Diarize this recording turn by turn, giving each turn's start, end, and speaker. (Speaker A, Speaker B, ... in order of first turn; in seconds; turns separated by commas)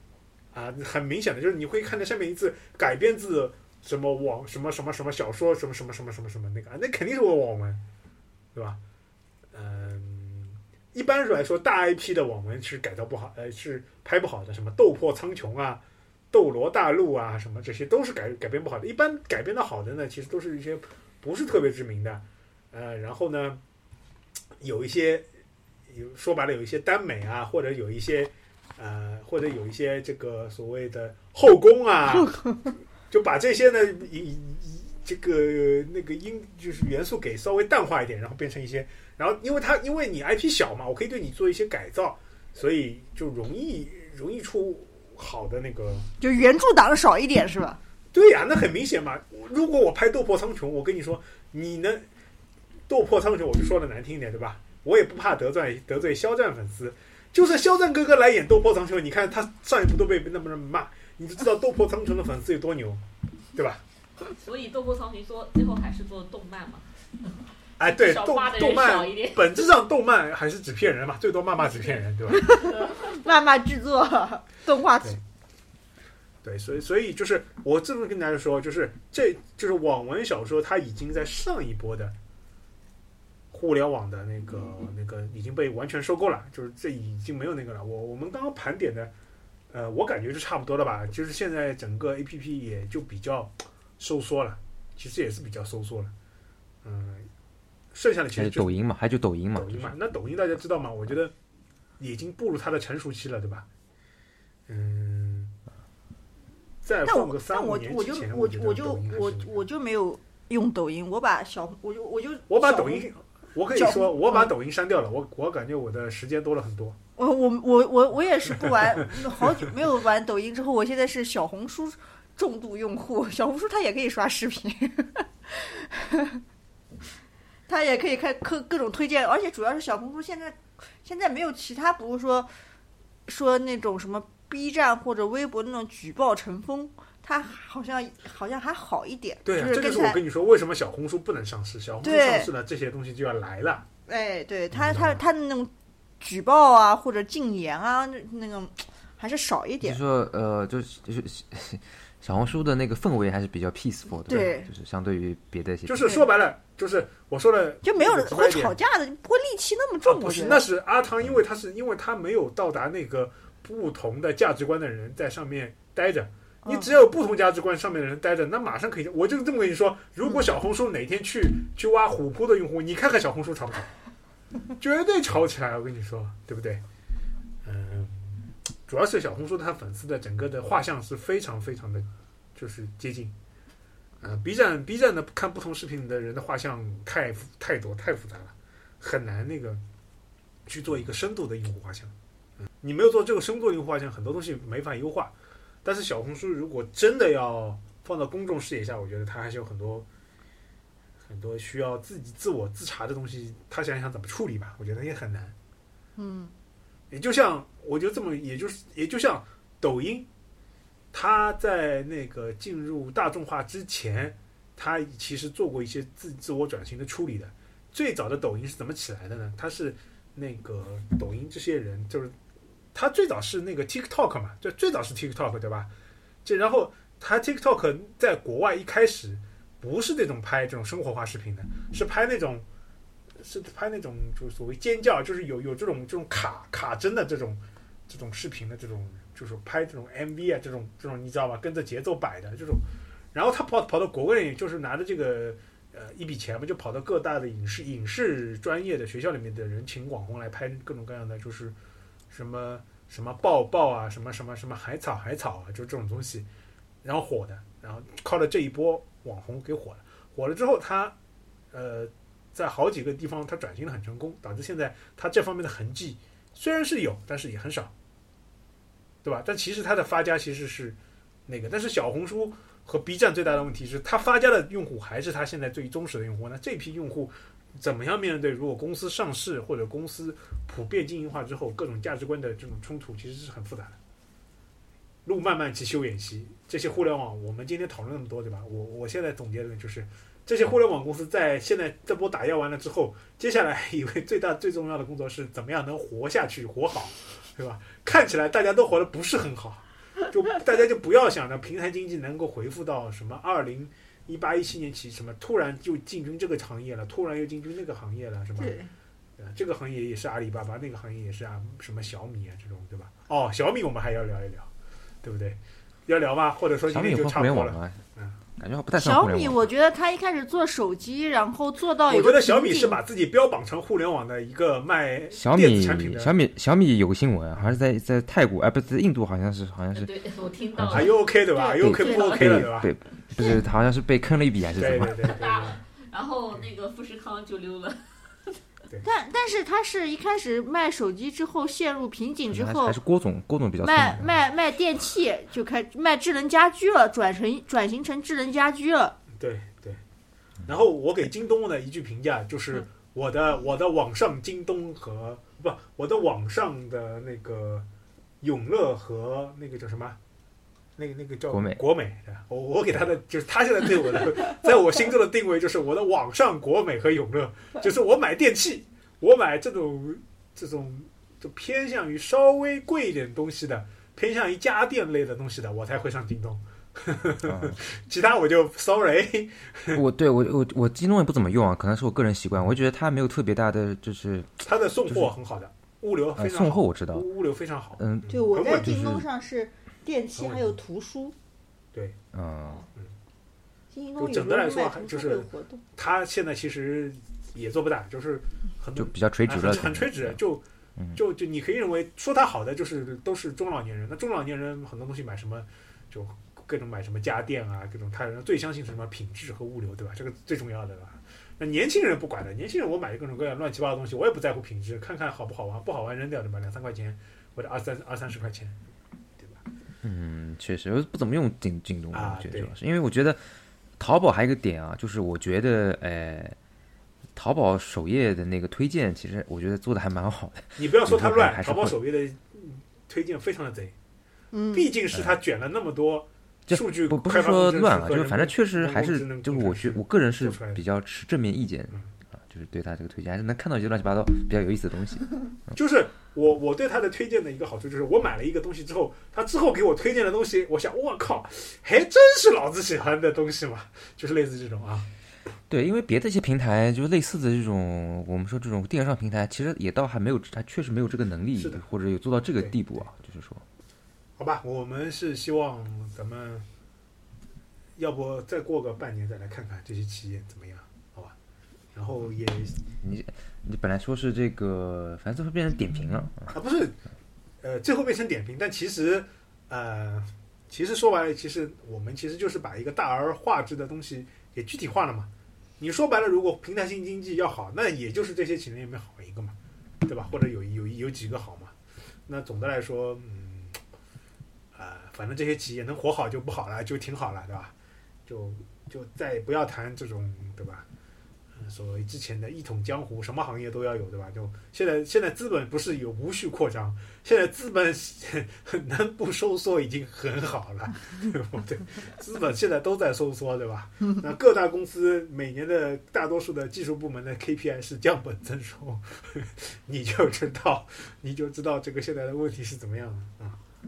Speaker A: 0.5-7.8, Speaker A: 8.5-8.8, Speaker A: 9.5-23.6, Speaker A: 24.6-25.3, Speaker A: 25.9-32.4, Speaker B: 32.1-32.5, Speaker A: 33.1-46.1, Speaker B: 46.2-47.8, Speaker A: 48.1-52.0, Speaker A: 52.9-63.0, Speaker A: 63.5-63.8, Speaker C: 64.4-66.9, Speaker A: 67.8-72.5, Speaker C: 67.8-69.7, Speaker C: 71.7-73.2, Speaker B: 72.3-75.2, Speaker A: 76.4-82.1, Speaker A: 83.5-89.1, Speaker A: 89.7-96.1, Speaker A: 96.8-97.3, Speaker A: 97.9-98.8, Speaker D: 98.3-100.0, Speaker A: 99.5-101.3, Speaker A: 102.0-103.7, Speaker A: 104.7-105.5, Speaker A: 106.8-109.5, Speaker B: 107.0-113.1, Speaker A: 112.5-117.0, Speaker B: 113.7-114.5, Speaker B: 117.2-126.4, Speaker A: 118.5-119.5, Speaker B: 127.7-132.5, Speaker B: 133.3-140.2, Speaker A: 139.4-143.8, Speaker B: 142.0-142.5, Speaker B: 144.1-150.0, Speaker A: 144.7-145.2, Speaker D: 149.8-156.1, Speaker B: 154.3-154.7, Speaker A: 155.8-158.8, Speaker B: 157.8-160.6, Speaker A: 160.0-173.9, Speaker B: 166.6-166.9, Speaker A: 174.8-176.8, Speaker A: 177.6-183.3, Speaker A: 184.2-189.8, Speaker A: 190.7-192.1, Speaker A: 192.8-200.1, Speaker A: 201.2-205.5, Speaker B: 206.2-206.5, Speaker A: 207.1-210.3, Speaker A: 211.1-222.3, Speaker A: 222.9-225.9, Speaker A: 226.4-232.6, Speaker A: 233.4-251.8, Speaker A: 252.3-256.4, Speaker A: 257.0-261.1, Speaker A: 261.7-267.9, Speaker A: 269.2-284.0, Speaker A: 285.2-308.8, Speaker B: 308.6-308.9, Speaker A: 309.4-314.7, Speaker A: 315.2-318.4, Speaker D: 316.9-318.0, Speaker D: 318.6-319.7, Speaker B: 319.0-323.0, Speaker A: 322.1-326.4, Speaker D: 325.3-330.1, Speaker C: 329.9-331.3, Speaker D: 330.7-331.1, Speaker A: 330.9-332.9, Speaker B: 331.5-332.5, Speaker D: 331.8-335.3, Speaker A: 334.8-335.8, Speaker C: 335.0-338.6, Speaker B: 339.0-343.0, Speaker D: 342.5-344.4, Speaker B: 343.8-349.2, Speaker A: 349.4-350.0, Speaker A: 350.7-357.9, Speaker A: 358.4-360.2, Speaker A: 361.0-380.0, Speaker D: 361.5-361.8, Speaker D: 377.4-377.8, Speaker D: 379.9-385.3, Speaker A: 384.6-389.1, Speaker D: 386.4-387.2, Speaker D: 388.0-389.2, Speaker B: 388.3-391.3, Speaker A: 390.3-390.8, Speaker D: 392.3-392.9, Speaker B: 393.9-395.8, Speaker A: 394.2-418.8, Speaker D: 398.9-400.4, Speaker D: 420.0-426.6, Speaker A: 422.1-422.7, Speaker D: 427.3-431.9, Speaker A: 430.8-433.9, Speaker B: 434.5-434.9, Speaker A: 434.7-440.8, Speaker D: 436.7-445.3, Speaker A: 445.7-455.1, Speaker D: 455.7-463.6, Speaker A: 461.6-461.8, Speaker A: 462.6-463.1, Speaker A: 464.4-466.7, Speaker A: 468.0-471.4, Speaker A: 471.9-472.8, Speaker D: 473.0-476.5, Speaker A: 476.5-477.0, Speaker A: 477.6-491.7, Speaker A: 492.3-493.8, Speaker A: 494.7-497.7, Speaker A: 498.3-500.9, Speaker A: 501.6-523.6